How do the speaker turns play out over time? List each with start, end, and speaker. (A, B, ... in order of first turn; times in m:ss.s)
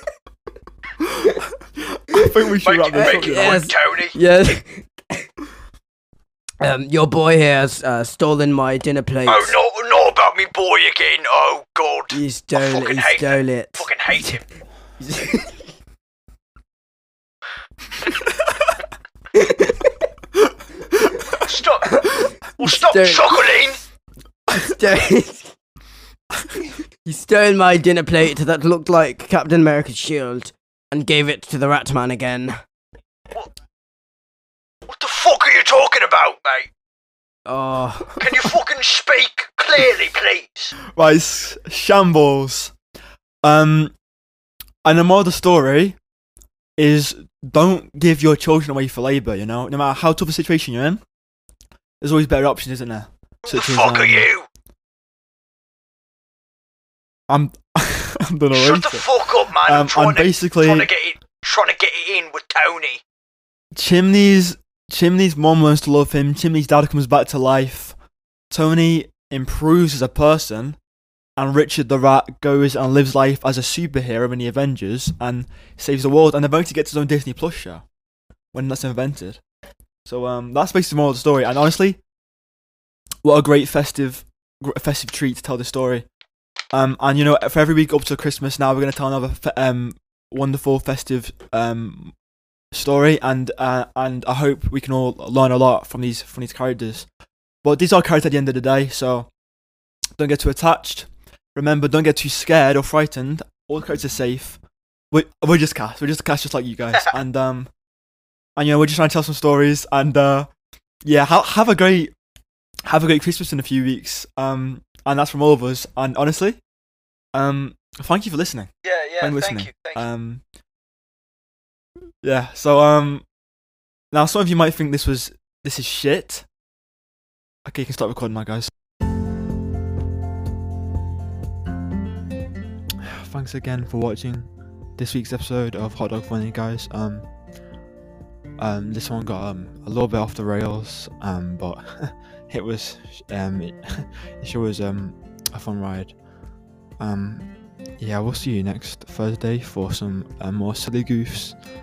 0:01.9-0:03.7 A
0:02.6-0:04.2 B
0:02.9-0:05.2 C
0:06.6-0:09.6 C
0:09.3-0:14.4 B
0:12.1-0:14.3 C
0:15.0-0:15.6 C
0:19.3-0:20.0 C
0:21.3-0:23.8 B
0:21.9-0:23.5 C
0:24.5-0:25.5 C
0:27.0-0:32.6 C
0:34.9-0:36.7 B
0:37.4-0:38.3 C
0:38.2-0:40.7 B
0:40.8-0:42.7 A
0:43.4-0:43.9 A
0:44.8-0:46.0 A
0:46.8-0:51.0 A
0:52.0-0:54.3 A
0:53.4-0:54.4 B
0:57.3-1:00.9 A
0:58.5-1:03.0 B
1:03.7-1:07.9 A
1:08.5-1:10.8 A
1:11.4-1:17.8 A
1:18.5-1:19.4 A
1:20.0-1:22.0 A
1:23.2-1:26.0 A
1:26.7-1:32.1 A
1:32.7-1:37.1 A
1:37.6-1:39.3 A
1:40.2-1:44.6 A
1:45.1-1:47.7 A
1:48.6-1:50.5 A
1:51.0-1:52.1 A
1:52.8-1:56.6 A
1:57.3-2:00.4 A
1:58.8-2:00.0 B
2:02.2-2:03.2 A
2:04.1-2:06.4 A
2:07.6-2:08.7 A
2:13.0-2:17.2 A
2:18.6-2:26.1 A
2:27.0-2:27.5 A
2:28.0-2:31.6 A